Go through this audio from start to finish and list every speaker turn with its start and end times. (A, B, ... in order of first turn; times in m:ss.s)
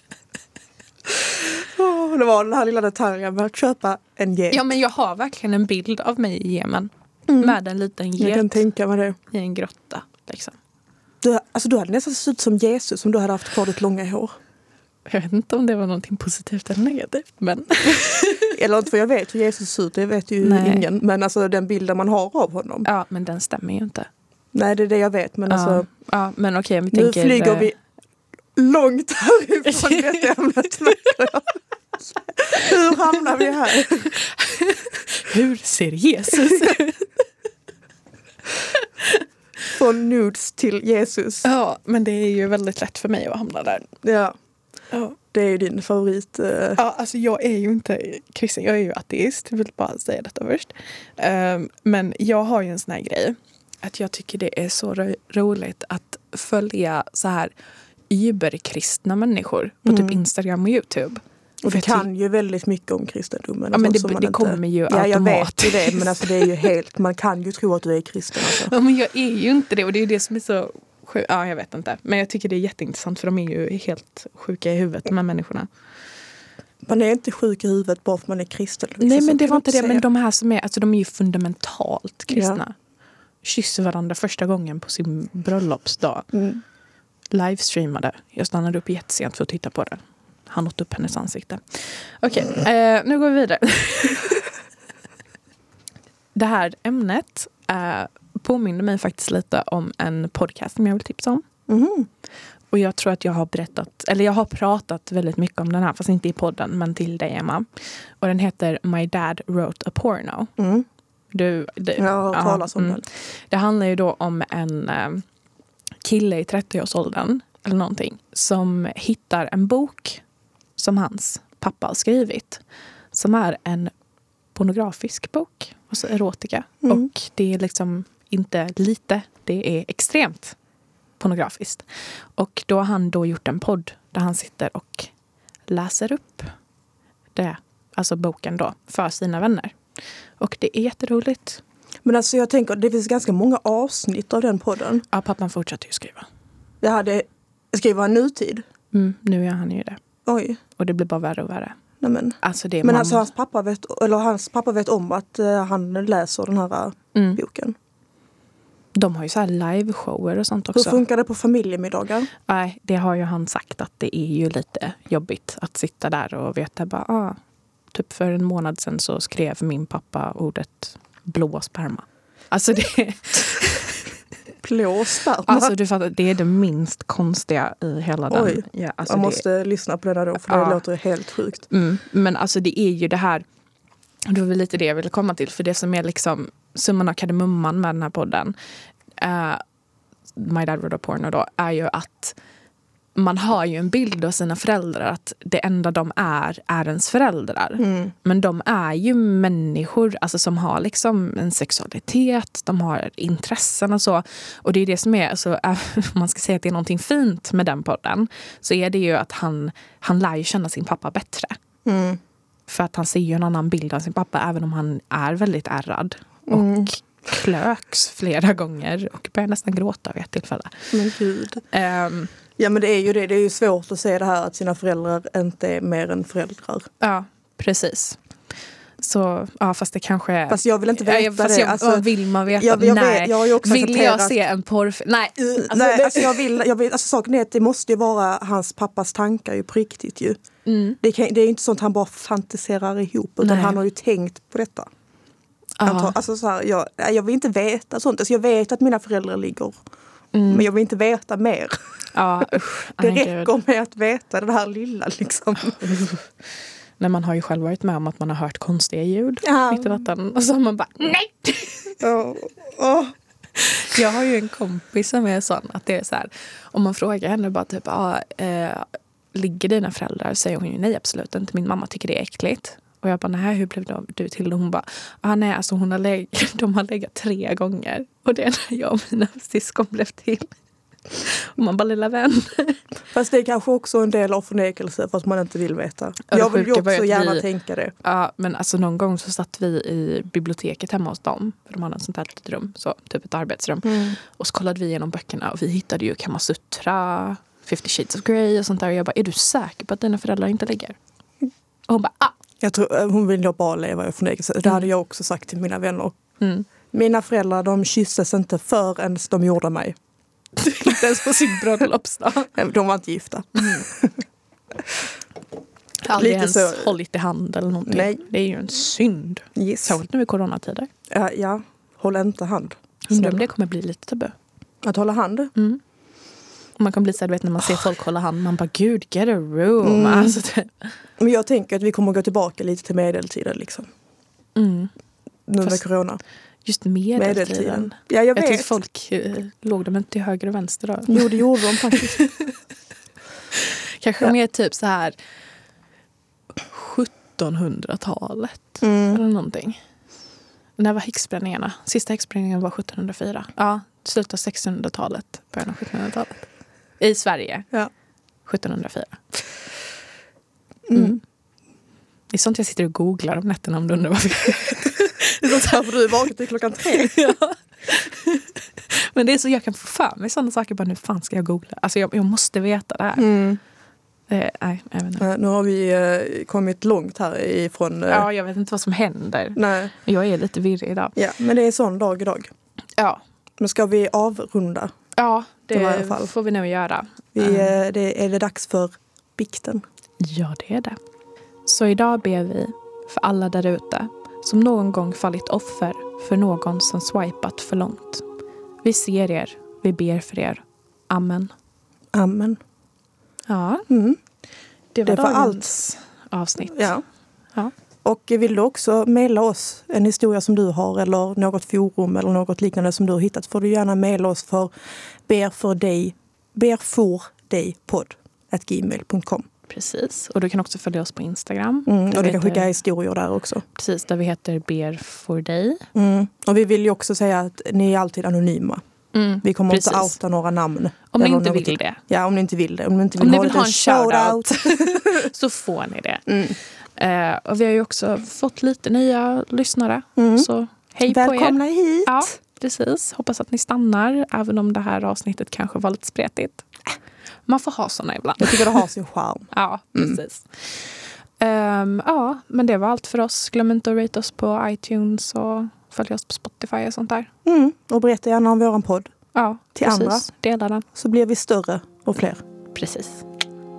0:01.1-0:04.6 A
0:04.5-0:08.6 B
0:07.3-0:07.6 A
0:08.2-0:09.2 A
0:09.3-0:10.6 B
0:11.2-0:14.3 A
0:15.1-0:18.6 B
0:18.5-0:22.9 A
0:20.4-0:20.8 B
0:22.8-0:24.1 B
0:24.5-0:25.9 A
0:25.5-0:27.7 B
0:26.9-0:27.7 A
0:28.6-0:34.1 A
0:29.7-0:30.3 B
0:34.1-0:37.1 B
0:38.8-0:39.2 B
0:39.7-0:41.4 A
0:41.4-0:43.9 B
0:44.0-0:44.4 A
0:45.3-0:46.8 A
0:46.8-0:57.5 B
0:58.1-1:02.1 B
0:59.9-1:00.2 A
1:01.6-1:08.7 A
1:03.7-1:06.4 B
1:08.5-1:15.7 B
1:16.8-1:20.0 A
1:19.0-1:22.7 B
1:22.3-1:22.6 A
1:23.4-1:26.3 B
1:26.3-1:26.6 A
1:27.3-1:34.5 B
1:36.4-1:41.4 B
1:41.7-1:42.1 A
1:42.7-1:47.7 B
1:48.2-1:50.5 B
1:50.6-1:50.9 A
1:51.3-1:55.2 B
1:52.0-1:53.0 A
1:56.0-2:00.2 B
2:00.8-2:02.6 B
2:03.1-2:03.9 B
2:04.6-2:10.6 B
2:11.2-2:11.8 B
2:12.4-2:15.1 B
2:15.7-2:16.5 B
2:17.4-2:19.8 B
2:20.4-2:21.6 B
2:22.0-2:25.0 A
2:25.1-2:26.3 B
2:26.8-2:28.6 A
2:28.9-2:30.0 B
2:30.3-2:30.6 A
2:30.8-2:31.8 B
2:32.0-2:37.8 A
2:32.4-2:33.3 B
2:37.1-2:37.4 B
2:39.0-2:41.0 B
2:40.8-2:42.3 A
2:42.5-2:47.4 B
2:47.9-2:54.0 B
2:54.6-2:55.7 A
2:55.5-2:59.4 B
2:58.3-3:01.6 A
3:00.5-3:00.8 B
3:01.7-3:03.4 B
3:04.3-3:08.6 B
3:09.2-3:09.6 B
3:10.4-3:12.4 B
3:13.2-3:31.6 B
3:17.8-3:18.1 A
3:31.8-3:32.2 A
3:32.7-3:40.9 B
3:36.5-3:36.9 A
3:40.9-3:41.6 A
3:41.7-3:42.3 B
3:42.6-3:46.9 A
3:47.0-3:48.2 B
3:49.0-3:56.4 B
3:50.5-3:54.4 A
3:55.5-4:00.4 A
4:00.7-4:01.0 B
4:01.0-4:04.9 A
4:03.4-4:03.8 B
4:05.8-4:06.1 B
4:05.8-4:09.8 A
4:10.3-4:10.7 B
4:10.5-4:11.8 A
4:12.1-4:13.5 B
4:13.0-4:16.0 A
4:15.6-4:16.2 B
4:17.0-4:22.0 B
4:19.4-4:20.0 A
4:22.0-4:23.1 A
4:23.6-4:40.5 B
4:41.2-4:42.8 B
4:43.1-4:47.9 A
4:46.3-4:47.5 B
4:48.0-5:01.0 B
4:53.8-4:54.2 A
5:01.9-5:02.4 B
5:02.6-5:06.2 A
5:06.4-5:06.7 B
5:06.9-5:10.0 A
5:10.6-5:12.5 B
5:12.5-5:14.2 A
5:13.6-5:13.9 B
5:16.0-5:20.9 B
5:16.1-5:16.9 A
5:17.9-5:18.2 A
5:19.6-5:20.0 A
5:21.1-5:23.4 A
5:23.1-5:24.3 B
5:24.8-5:25.5 A
5:26.8-5:30.9 B
5:29.8-5:30.4 A
5:31.2-5:33.9 A
5:34.6-5:34.9 B
5:35.5-5:36.2 A
5:36.7-5:42.5 B
5:37.2-5:38.7 A
5:41.1-5:42.3 A
5:43.6-5:45.2 B
5:46.7-5:49.8 B
5:48.8-5:49.2 A
5:50.8-5:56.5 B
5:57.0-5:57.7 B
5:58.5-5:59.4 B
6:00.9-6:01.2 A
6:00.9-6:01.2 B
6:02.3-6:05.9 B
6:05.4-6:07.3 A
6:06.9-6:13.3 B
6:13.2-6:13.6 A
6:14.3-6:15.2 B
6:15.2-6:18.3 A
6:18.1-6:21.2 B
6:19.6-6:19.9 A
6:21.2-6:22.5 A
6:23.6-6:24.9 A
6:25.2-6:27.7 B
6:25.7-6:26.3 A
6:27.3-6:29.8 A
6:30.2-6:31.0 B
6:31.7-6:38.2 B
6:38.8-6:41.5 B
6:42.1-6:42.6 A
6:43.5-6:43.9 B
6:43.9-6:44.2 A
6:45.0-6:46.9 B
6:45.0-6:45.8 A
6:46.7-6:47.0 A
6:48.0-6:54.7 A
6:55.3-6:59.4 A
6:59.7-7:02.7 B
7:01.9-7:03.6 A
7:03.8-7:05.8 B
7:06.0-7:08.8 A
7:09.1-7:10.2 B
7:09.4-7:15.3 A
7:11.1-7:12.0 B
7:13.2-7:16.3 B
7:16.3-7:16.6 A
7:17.0-7:26.7 B
7:20.2-7:20.5 A
7:21.1-7:22.3 A
7:27.5-7:28.8 B
7:28.4-7:30.2 A
7:29.5-7:30.5 B
7:31.4-7:37.3 B
7:37.4-7:39.1 A
7:39.4-7:40.8 B
7:39.8-7:40.3 A
7:40.9-7:42.4 A
7:42.8-7:43.2 B